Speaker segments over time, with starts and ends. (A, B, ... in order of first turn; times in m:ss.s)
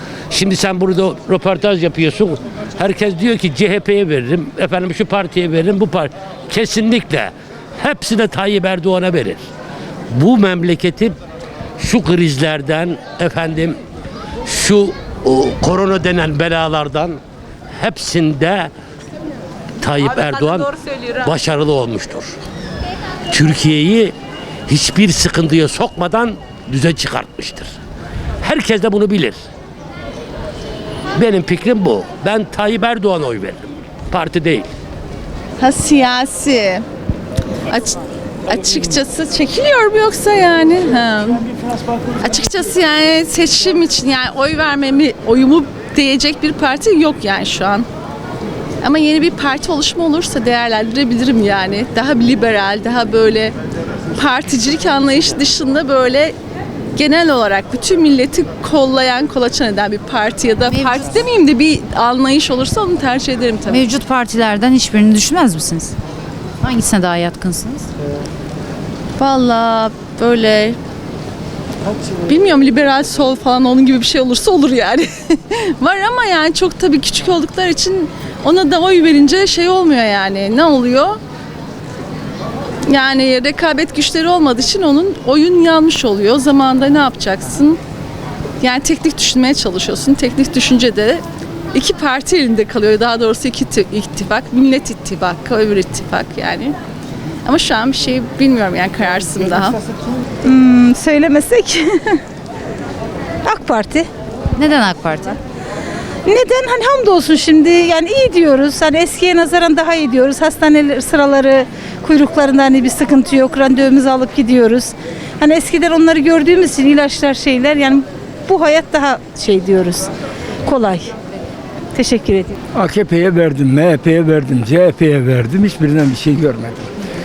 0:00.3-0:09.4 A
0:10.1-0:11.2 A
0:11.8-0:13.8 A
0:14.5-0:17.2 A
0:17.7-0:18.7 A
0:19.8-0:22.4 A
0:23.3-0:24.1 A
0:24.7-0:27.8 A
0:28.4-0:29.4 A
0:31.2-0:34.7 A
0:35.6-0:36.8 B
0:37.7-0:41.4 B
0:42.2-0:47.9 B
0:48.8-0:53.6 B
0:54.2-0:56.4 B
0:57.0-1:03.8 B
1:00.7-1:01.2 C
1:03.7-1:06.0 C
1:06.6-1:07.9 C
1:09.2-1:10.8 B
1:12.3-1:21.2 B
1:22.9-1:27.8 B
1:28.6-1:36.7 B
1:37.4-1:39.8 B
1:40.4-1:42.2 D
1:43.4-1:44.1 D
1:44.6-1:45.4 C
1:46.3-2:00.1 D
2:00.6-2:01.1 D
2:02.0-2:02.6 D
2:02.7-2:06.8 E